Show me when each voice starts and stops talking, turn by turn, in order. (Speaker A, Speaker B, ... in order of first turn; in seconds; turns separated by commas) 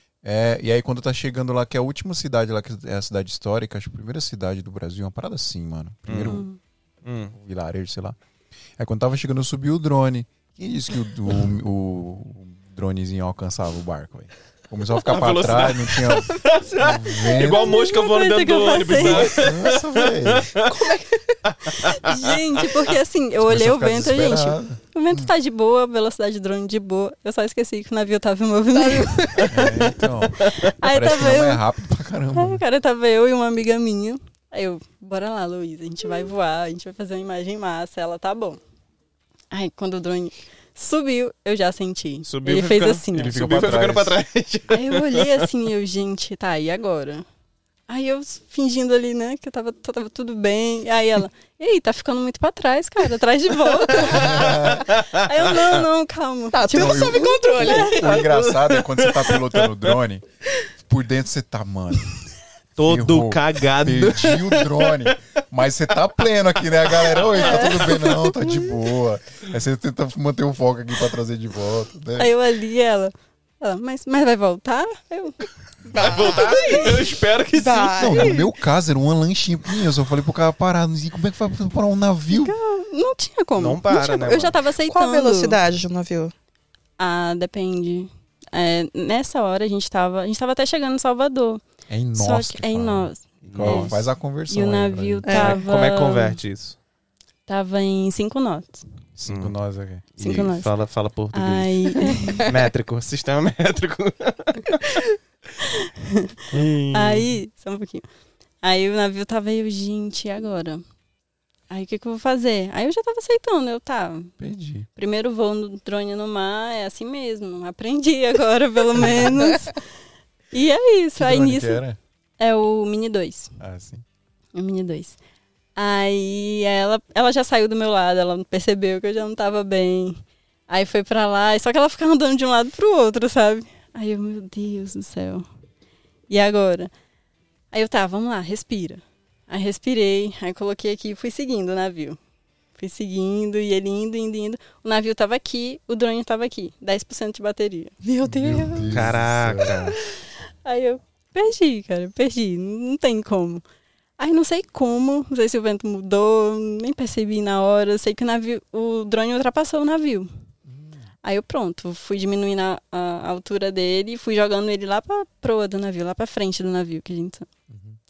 Speaker A: 0.2-6.4, Speaker B: 6.1-6.4, Speaker C: 6.2-6.6, Speaker B: 7.0-7.3, Speaker A: 7.3-8.2, Speaker A: 8.8-17.7, Speaker B: 15.0-20.7, Speaker C: 17.4-19.4, Speaker A: 18.9-20.5, Speaker D: 20.6-21.4, Speaker B: 21.5-22.3, Speaker C: 21.7-29.5, Speaker A: 23.4-25.3, Speaker D: 28.8-29.5, Speaker B: 29.4-29.9, Speaker A: 29.5-32.6, Speaker B: 30.4-30.7, Speaker C: 30.4-31.6, Speaker C: 32.3-38.6, Speaker C: 39.5-43.4, Speaker B: 42.2-45.5, Speaker A: 43.1-44.2, Speaker C: 44.7-47.2, Speaker C: 47.9-57.8, Speaker B: 54.0-55.8, Speaker A: 54.0-54.9, Speaker D: 56.5-58.3, Speaker A: 56.7-60.2, Speaker B: 58.0-60.0, Speaker A: 60.8-62.2, Speaker B: 62.8-65.1, Speaker A: 62.8-72.3, Speaker B: 66.8-68.3, Speaker C: 72.2-77.0, Speaker D: 75.9-76.8, Speaker B: 75.9-78.2, Speaker D: 77.5-78.5, Speaker A: 77.9-82.5, Speaker C: 82.3-85.6, Speaker B: 83.6-84.6, Speaker D: 84.8-86.3, Speaker C: 87.0-96.3, Speaker A: 91.9-95.5, Speaker B: 93.5-94.0, Speaker D: 95.2-95.6, Speaker B: 95.3-96.8, Speaker C: 97.5-98.8, Speaker A: 99.2-100.5, Speaker B: 99.3-99.6, Speaker B: 100.1-105.0, Speaker C: 100.2-100.7, Speaker C: 101.3-102.5, Speaker D: 102.0-102.3, Speaker C: 105.6-106.3, Speaker B: 106.5-107.3, Speaker C: 106.9-108.0, Speaker C: 108.6-110.8, Speaker C: 111.7-114.3, Speaker A: 114.4-114.9, Speaker C: 114.9-119.8, Speaker C: 120.5-121.8, Speaker A: 121.2-122.0, Speaker C: 122.4-123.5, Speaker A: 123.6-124.0, Speaker C: 124.5-125.2, Speaker C: 125.8-135.4, Speaker C: 136.3-136.9, Speaker C: 137.7-142.2, Speaker C: 142.8-147.9, Speaker D: 148.0-149.1, Speaker A: 148.2-149.9, Speaker B: 148.9-150.0, Speaker C: 150.6-153.6, Speaker C: 154.2-160.3, Speaker A: 160.7-161.0, Speaker C: 161.2-167.5